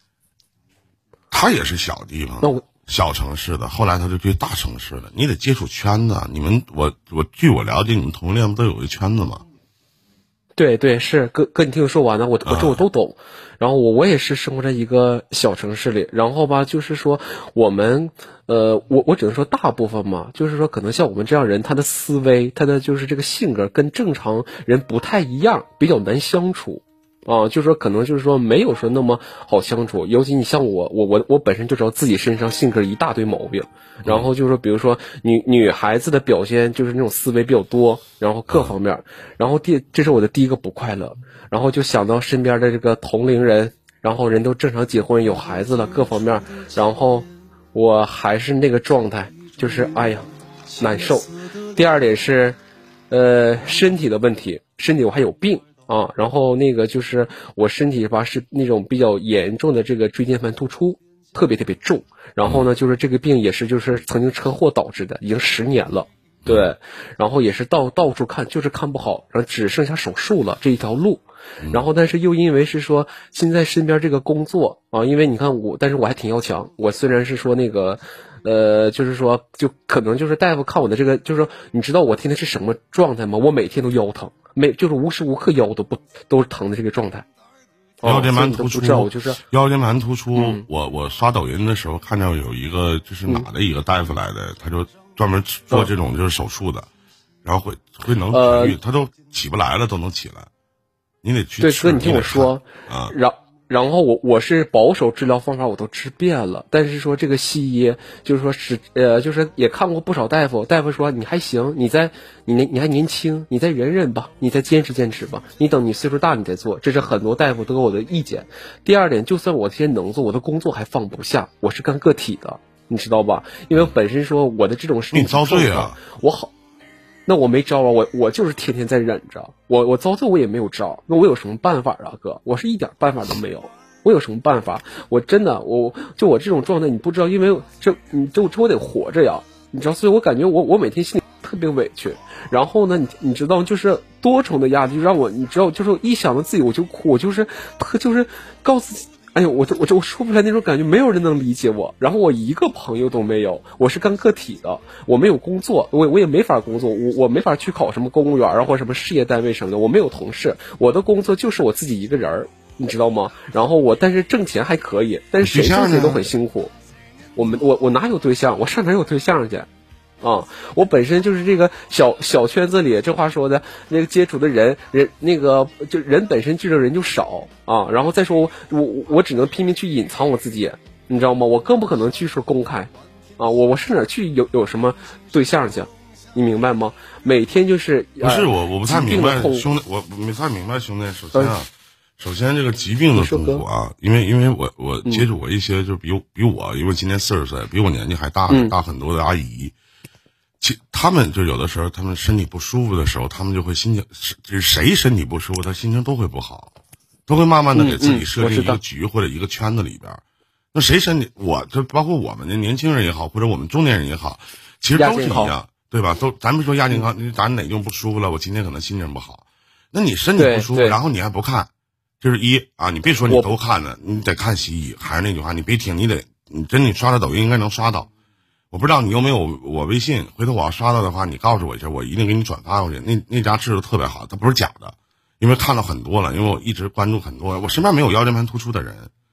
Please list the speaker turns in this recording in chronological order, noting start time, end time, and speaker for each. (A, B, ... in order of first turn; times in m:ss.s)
0:01.3-0:09.4 A
0:10.6-0:52.6 B
0:12.4-0:12.8 A
0:38.5-0:38.7 A
0:53.1-1:27.2 B
1:06.4-1:06.7 A
1:28.0-1:29.4 B
1:28.0-1:36.9 A
1:30.3-1:30.6 B
1:37.4-1:40.5 A
1:38.3-1:38.8 B
1:41.2-1:43.1 A
1:41.6-2:06.5 B
2:05.1-2:06.0 A
2:07.3-2:46.7 B
2:45.4-2:46.2 A
2:47.3-2:49.7 B
2:50.2-3:09.7 B
3:08.2-3:19.7 A
3:13.1-3:13.6 B
3:18.5-3:18.7 B
3:20.6-3:26.7 A
3:27.3-3:30.2 A
3:27.7-3:28.8 B
3:30.7-3:41.7 A
3:34.9-3:35.5 B
3:40.4-3:41.0 B
3:42.2-3:48.1 A
3:48.7-3:59.1 A